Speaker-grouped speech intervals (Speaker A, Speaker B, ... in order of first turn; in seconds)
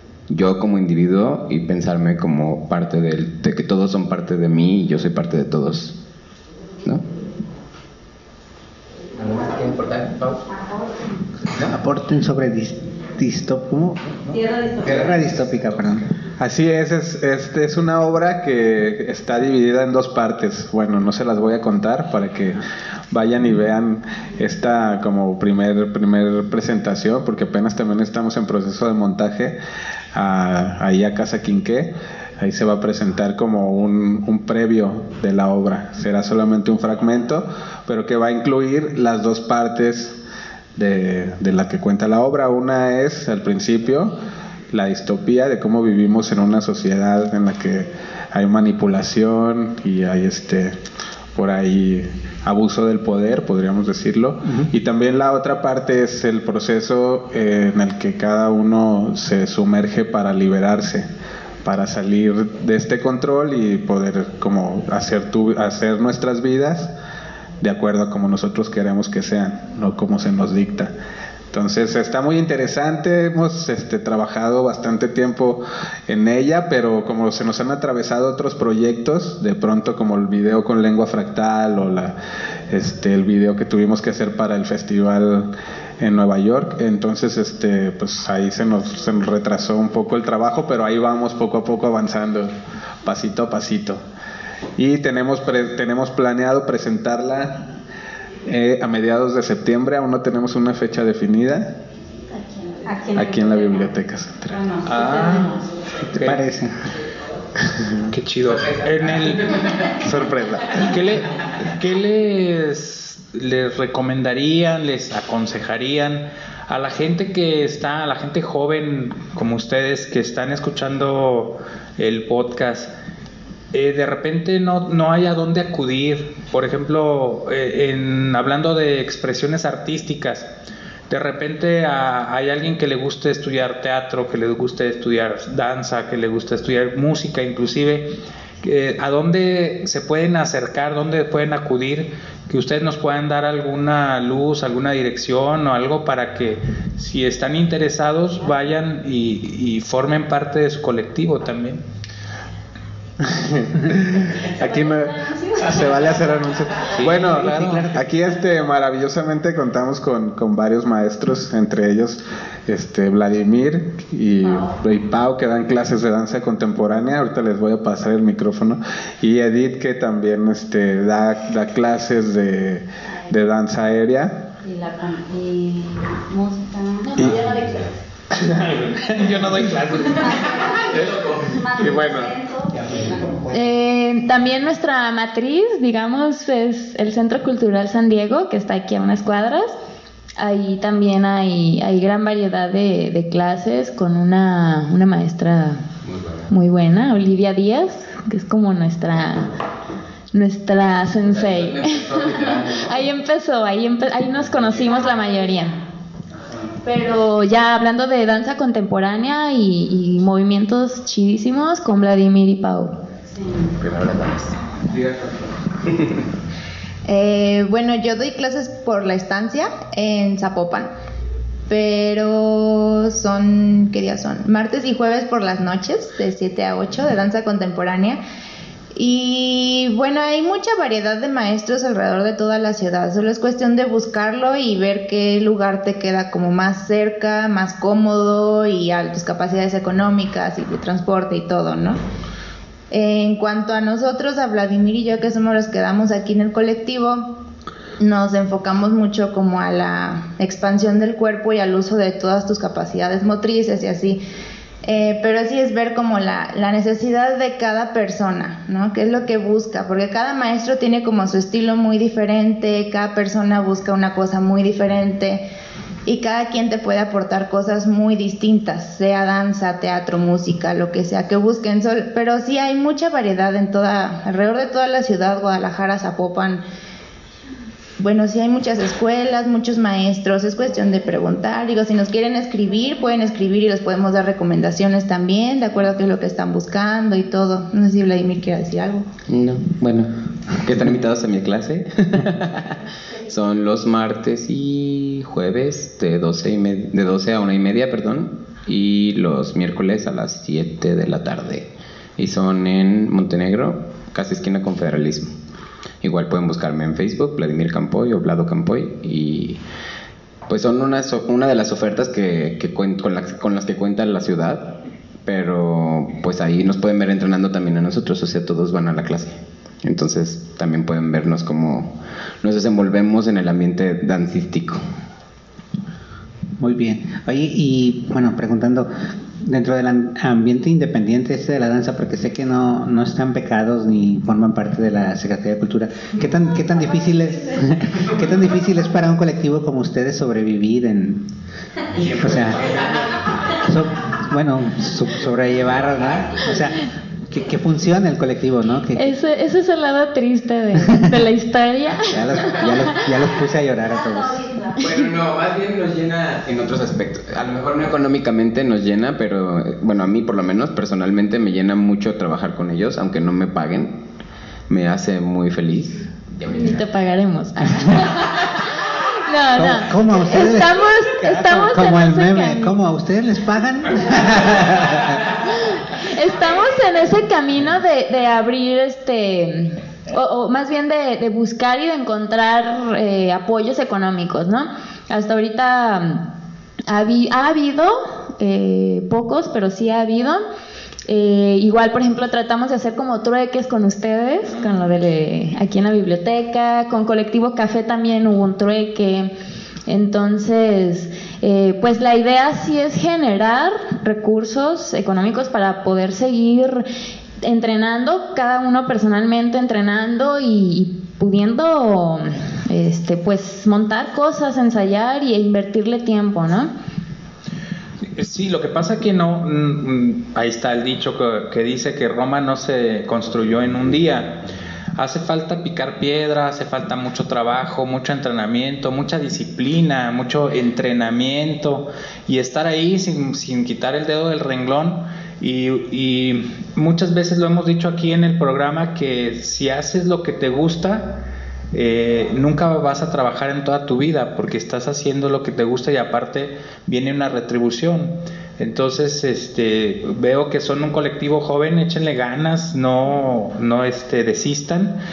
Speaker A: 0.3-6.0, 9.2-10.4, 108.5-109.9, 180.9-181.5, 196.0-196.5, 201.2-202.9, 204.7-205.0, 213.8-214.6, 289.3-305.3, 306.0-309.6, 310.5-324.8, 341.9-343.6, 354.8-364.0, 364.7-366.9
Speaker B: 11.6-16.1, 106.1-106.8, 157.1-157.9, 182.7-183.8, 326.6-341.3, 342.2-342.7, 343.5-349.2, 350.8-351.1, 352.1-354.5, 369.5-375.2
Speaker C: 14.3-15.1, 102.5-103.9, 104.5-105.7, 174.6-177.3, 180.2-182.8, 354.0-354.8
Speaker D: 16.4-29.6, 30.1-40.2, 40.8-44.1, 44.7-50.8, 51.4-61.1, 61.6-66.9, 67.6-70.9, 71.5-82.2, 82.7-92.5, 93.0-94.0, 94.8-97.7, 98.5-101.7, 103.1-104.6, 109.9-111.0, 153.2-174.4, 178.5-179.4, 181.8-182.3
Speaker E: 104.8-106.5, 108.1-109.6, 110.7-122.9, 123.7-130.5, 131.1-138.1, 138.6-151.8, 156.8-157.9, 178.6-180.5, 418.1-424.4, 425.0-455.0
Speaker F: 177.0-177.9, 183.5-189.8, 190.4-195.8, 196.5-199.5, 200.3-205.8, 206.8-212.9, 349.0-352.9, 366.5-372.8, 375.5-386.3, 386.9-390.4, 391.1-399.4, 399.9-406.9, 407.4-416.7
Speaker G: 217.1-220.9, 221.7-228.2, 228.9-242.0, 242.9-247.4, 248.0-254.2, 254.8-265.5, 266.1-276.6, 278.0-289.1